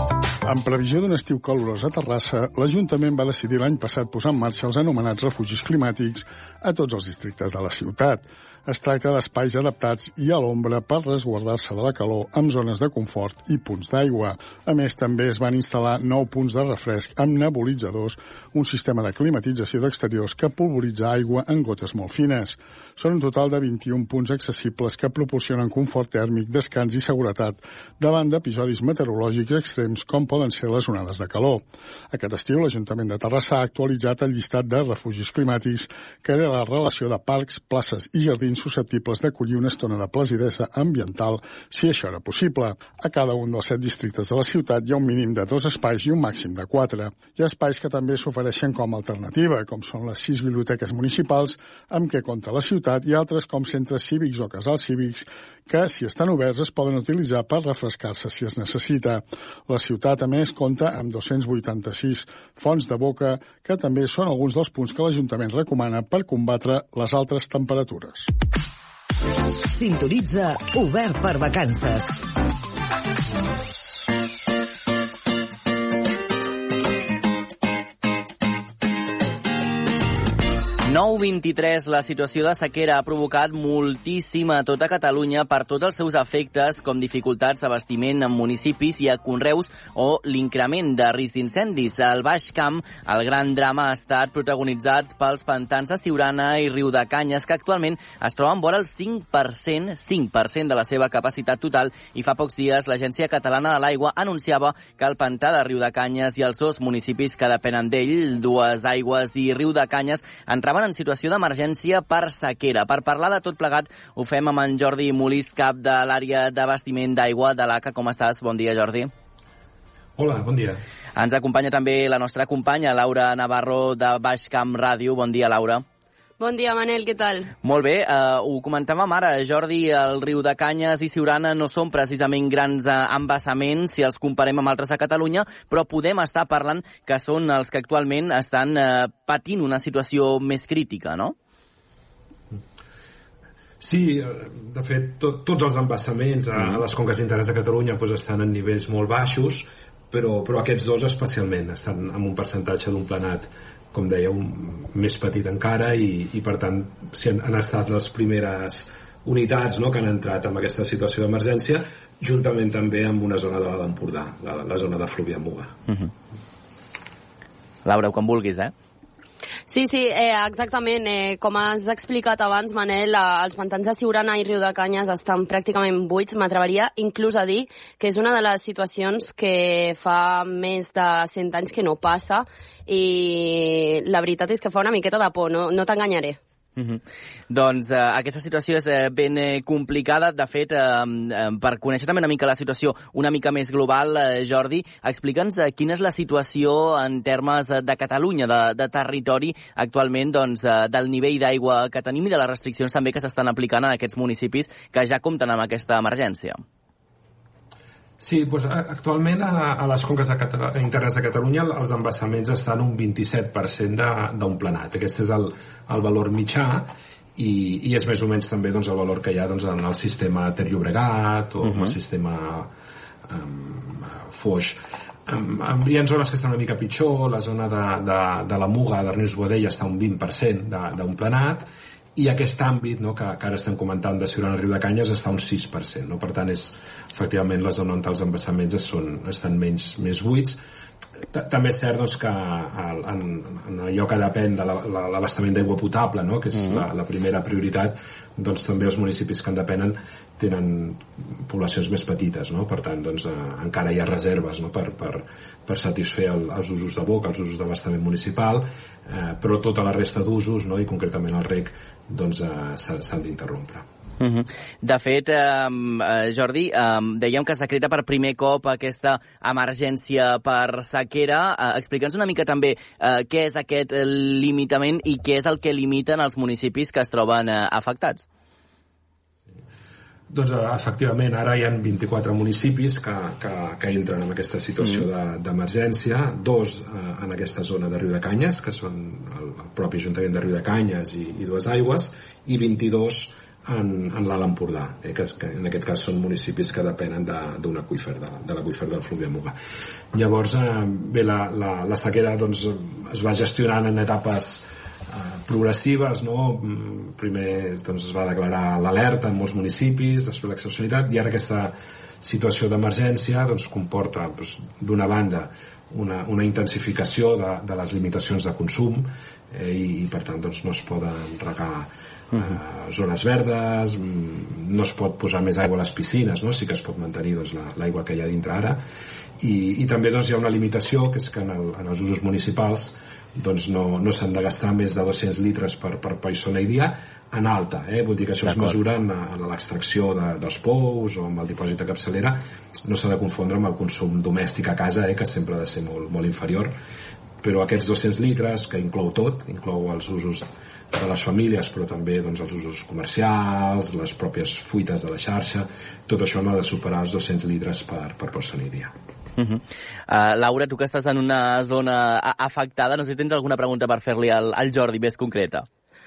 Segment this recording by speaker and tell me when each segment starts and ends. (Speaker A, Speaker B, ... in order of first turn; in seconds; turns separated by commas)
Speaker A: 0.4-68.3, Speaker B: 69.7-72.3, Speaker C: 80.9-119.1, Speaker D: 120.2-120.8, Speaker C: 121.2-125.8, Speaker E: 126.4-127.5, Speaker C: 127.6-141.3, Speaker D: 143.8-165.8, Speaker C: 167.8-168.7, Speaker E: 169.7-186.4, Speaker C: 186.8-206.6, Speaker D: 208.2-222.7, Speaker D: 223.3-240.6, Speaker D: 241.3-263.9, Speaker C: 264.2-278.3, Speaker D: 280.3-299.6, Speaker D: 300.1-328.8, Speaker D: 329.4-346.7, Speaker D: 347.4-358.9, Speaker C: 359.4-365.7